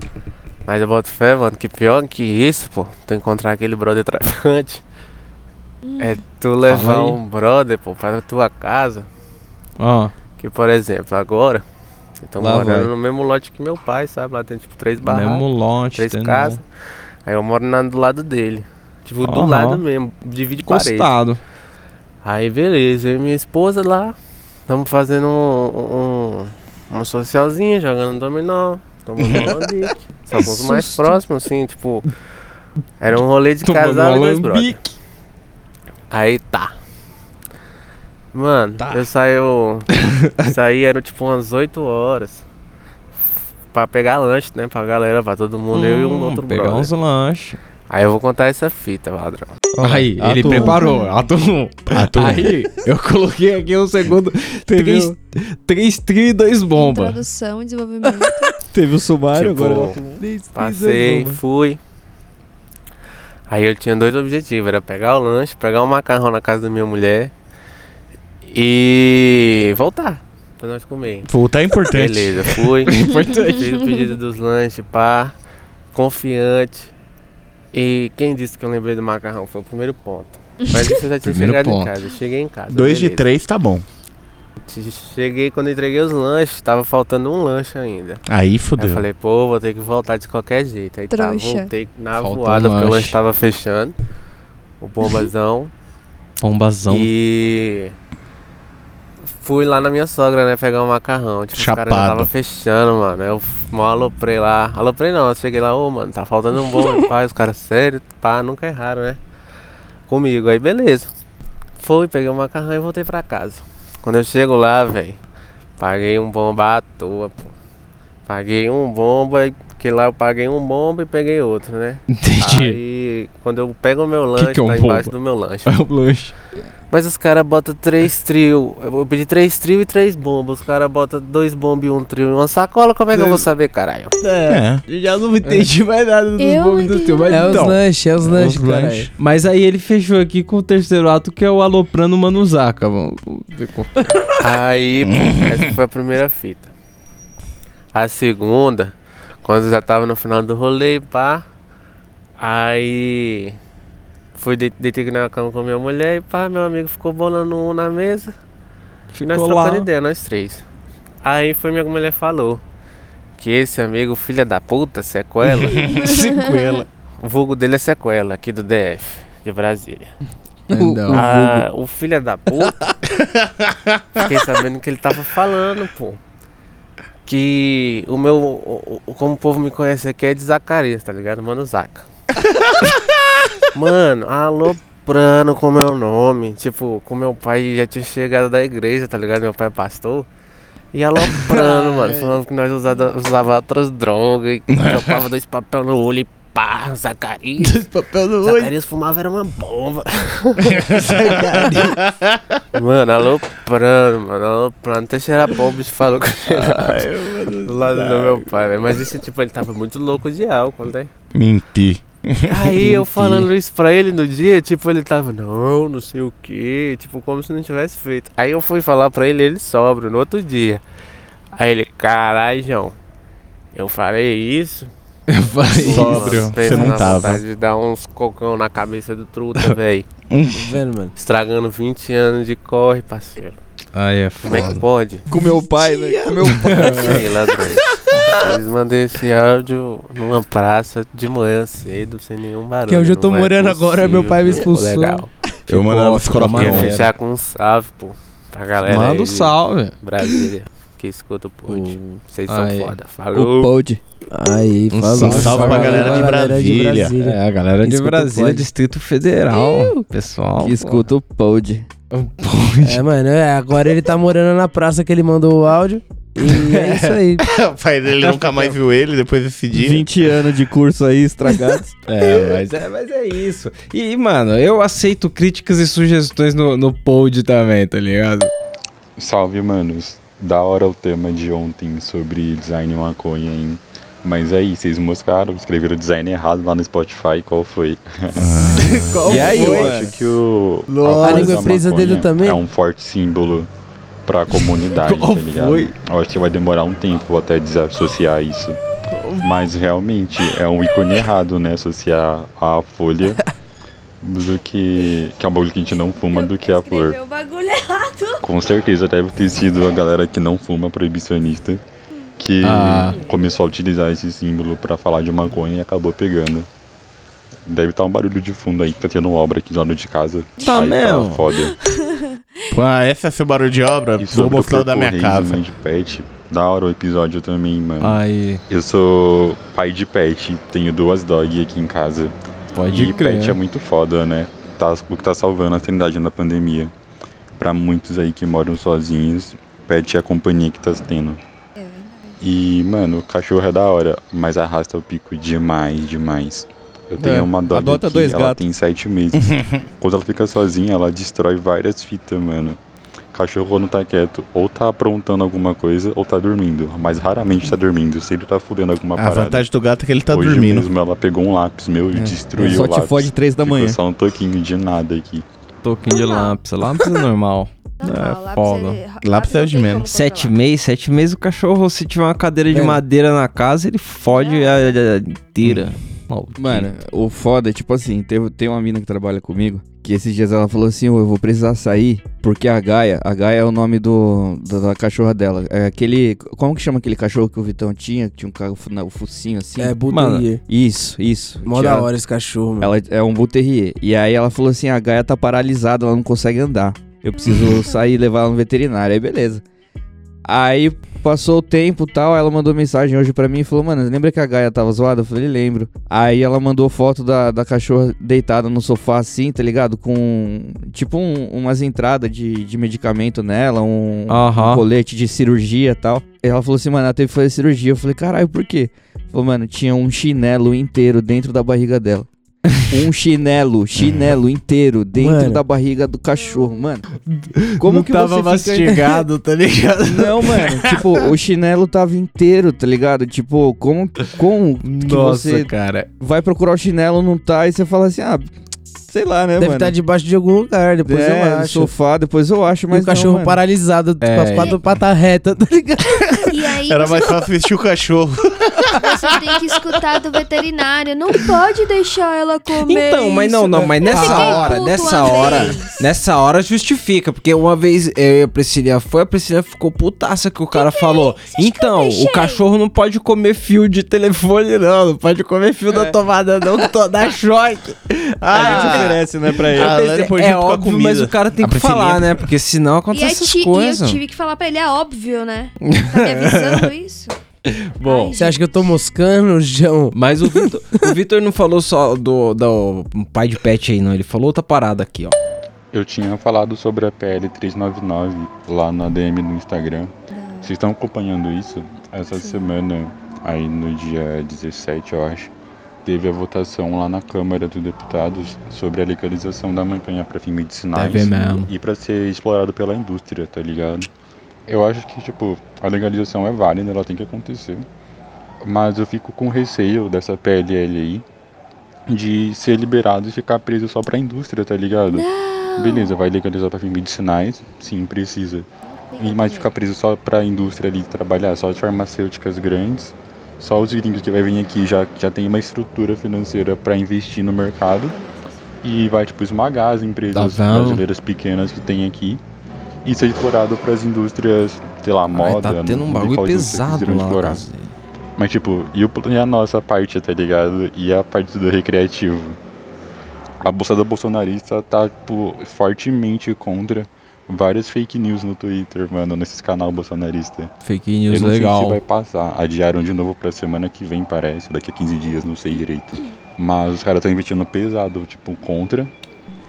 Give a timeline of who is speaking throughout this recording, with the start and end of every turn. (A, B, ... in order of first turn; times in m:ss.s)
0:00.6-0:04.8 A
0:05.8-0:06.2 B
0:06.0-0:09.1 A
0:06.7-0:07.2 C
0:09.8-0:10.1 C
0:10.4-0:11.6 A
0:12.2-0:16.6 A
0:12.4-0:12.9 D
0:15.0-0:16.6 C
0:17.2-0:21.1 A
0:19.2-0:19.8 C
0:20.6-0:21.4 C
0:22.2-0:24.1 A
0:24.7-0:32.0 A
0:30.4-0:30.9 C
0:33.0-0:34.8 A
0:33.6-0:34.9 C
0:36.1-0:36.7 A
0:38.3-0:39.9 A
0:40.4-0:42.4 A
0:43.7-0:46.9 A
0:45.7-0:47.6 C
0:47.9-0:49.5 A
0:49.7-0:50.8 D
0:49.8-0:57.2 C
0:50.6-0:51.1 B
0:51.9-0:52.6 E
0:54.7-0:55.1 D
0:56.8-0:58.5 B
0:58.7-1:00.0 D
0:59.3-1:00.0 A
1:00.2-1:01.3 F
1:00.5-1:01.8 A
1:00.9-1:01.2 D
1:03.5-1:07.3 A
1:08.4-1:11.3 A
1:11.2-1:12.7 E
1:11.9-1:13.0 A
1:12.9-1:13.7 C
1:13.3-1:14.1 B
1:13.6-1:15.3 A
1:15.9-1:16.9 A
1:17.7-1:23.2 A
1:21.2-1:21.9 C
1:22.7-1:23.8 E
1:24.6-1:28.2 A
1:28.3-1:29.0 E
1:28.8-1:33.9 A
1:31.1-1:31.7 B
1:32.2-1:33.2 C
1:34.8-1:35.7 A
1:36.4-1:37.1 C
1:36.9-1:37.9 A
1:39.3-1:49.2 A
1:41.5-1:42.3 E
1:50.1-1:51.1 A
1:51.8-1:55.2 A
1:55.8-1:57.5 A
1:58.2-2:05.7 A
2:02.1-2:02.8 C
2:04.4-2:05.1 C
2:05.6-2:06.3 C
2:06.9-2:14.1 A
2:13.1-2:13.5 C
2:14.2-2:17.8 C
2:14.5-2:14.8 E
2:16.4-2:17.7 B
2:17.3-2:19.1 F
2:18.2-2:19.1 E
2:19.2-2:23.9 C
2:24.4-2:26.7 A
2:25.1-2:25.7 E
2:27.9-2:31.4 A
2:32.4-2:33.6 A
2:34.4-2:38.3 A
2:39.1-2:39.9 C
2:39.2-2:40.6 A
2:41.2-2:42.6 A
2:43.4-2:45.9 A
2:45.4-2:46.8 E
2:46.0-2:46.6 C
2:46.0-2:46.6 B
2:47.2-2:50.1 A
2:50.7-2:51.3 C
2:50.7-2:51.6 D
2:51.1-2:52.8 A
2:53.1-2:54.3 E
2:54.2-2:56.2 A
2:57.2-3:02.1 A
3:03.7-3:10.3 A
3:10.9-3:17.8 A
3:11.5-3:12.3 C
3:14.7-3:15.1 E
3:17.6-3:18.7 C
3:18.4-3:20.9 A
3:20.9-3:22.3 E
3:21.1-3:21.9 C
3:22.7-3:27.0 A
3:26.5-3:28.4 C
3:27.6-3:31.1 A
3:31.3-3:33.5 E
3:32.5-3:40.8 A
3:41.5-3:43.0 A
3:43.7-3:44.9 A
3:45.3-3:46.9 C
3:45.7-3:50.0 A
3:45.8-3:47.4 E
3:50.3-3:50.6 E
3:50.5-3:51.1 F
3:51.2-3:53.6 A
3:53.9-3:54.8 C
3:54.4-3:55.2 A
3:55.3-3:57.1 D
3:56.4-3:57.3 C
3:57.0-3:57.8 A
3:58.4-4:05.3 A
4:02.9-4:05.2 F
4:05.7-4:07.1 E
4:05.7-4:07.1 C
4:06.5-4:13.7 A
4:08.8-4:09.9 C
4:11.7-4:12.9 C
4:13.3-4:14.0 D
4:14.3-4:18.7 F
4:14.9-4:16.4 C
4:15.2-4:17.1 E
4:17.2-4:21.1 C
4:20.6-4:21.9 D
4:22.1-4:23.0 C
4:22.8-4:27.4 F
4:26.6-4:27.2 C
4:27.4-4:30.0 E
4:28.2-4:28.7 C
4:29.7-4:31.9 D
4:32.1-4:38.5 C
4:39.2-4:53.7 G
4:48.4-4:49.3 E
4:48.7-4:50.1 C
4:49.2-4:50.1 D
4:51.0-4:51.3 C
4:51.0-4:52.6 F
4:54.2-4:58.8 G
4:54.5-4:55.9 C
4:59.4-5:03.4 G
5:04.2-5:07.2 G
5:06.2-5:08.4 B
5:08.4-5:11.8 G
5:12.4-5:16.7 G
5:12.6-5:13.2 C
5:17.7-5:21.7 G
5:20.6-5:21.5 C
5:21.5-5:21.8 B
5:22.7-5:25.6 E
5:24.2-5:32.3 G
5:28.0-5:28.6 C
5:32.7-5:33.6 C
5:32.9-5:36.9 G
5:37.6-5:41.4 G
5:41.8-5:42.4 B
5:42.4-5:52.8 G
5:47.2-5:48.6 D
5:49.3-5:49.8 E
5:53.3-5:59.6 G
5:59.2-6:00.9 E
6:00.3-6:05.4 G
6:02.1-6:04.0 D
6:05.8-6:09.0 C
6:06.1-6:07.2 B
6:08.0-6:10.6 B
6:09.2-6:10.1 E
6:10.0-6:16.9 C
6:12.7-6:13.0 F
6:14.3-6:15.0 B
6:16.6-6:30.0 D
6:29.8-6:30.6 F
6:30.1-6:30.4 C
6:30.7-6:32.1 D
6:31.6-6:32.9 F
6:32.8-6:39.6 D
6:40.4-7:02.3 D
6:54.3-6:54.8 C
7:02.9-7:07.0 D
7:04.0-7:04.3 E
7:05.1-7:05.6 F
7:06.4-7:06.7 B
7:07.7-7:11.2 C
7:07.8-7:09.0 D
7:10.0-7:18.5 D
7:14.8-7:16.1 C
7:19.0-7:19.9 D
7:19.6-7:21.9 F
7:21.0-7:23.6 D
7:22.9-7:26.1 F
7:24.2-7:24.8 C
7:26.3-7:29.6 E
7:26.4-7:27.4 B
7:29.0-7:36.0 B
7:32.7-7:48.0 C
7:40.7-7:42.7 B
7:48.4-7:49.2 E
7:48.5-7:50.0 D
7:48.5-7:49.2 C
7:49.7-7:52.5 E
7:49.7-7:54.2 C
7:53.1-7:57.4 B
7:55.8-7:56.9 C
7:57.7-7:58.4 C
7:58.0-7:58.7 B
7:58.4-8:00.6 F
8:00.1-8:05.4 C
8:05.9-8:10.1 G
8:10.3-8:10.7 B
8:10.6-8:15.5 G
8:12.4-8:12.7 B
8:16.0-8:24.1 G
8:20.9-8:21.7 C
8:21.2-8:21.6 B
8:24.7-8:27.9 G
8:28.6-8:31.2 G
8:32.1-8:38.7 G
8:35.1-8:36.1 B
8:38.9-8:39.7 B
8:39.2-8:48.1 G
8:48.1-8:48.5 B
8:48.8-8:52.4 G
8:50.3-8:51.0 C
8:53.0-8:57.6 G
8:55.3-8:57.9 C
8:58.4-9:02.6 G
9:03.6-9:10.7 G
9:10.8-9:12.0 C
9:11.3-9:19.1 G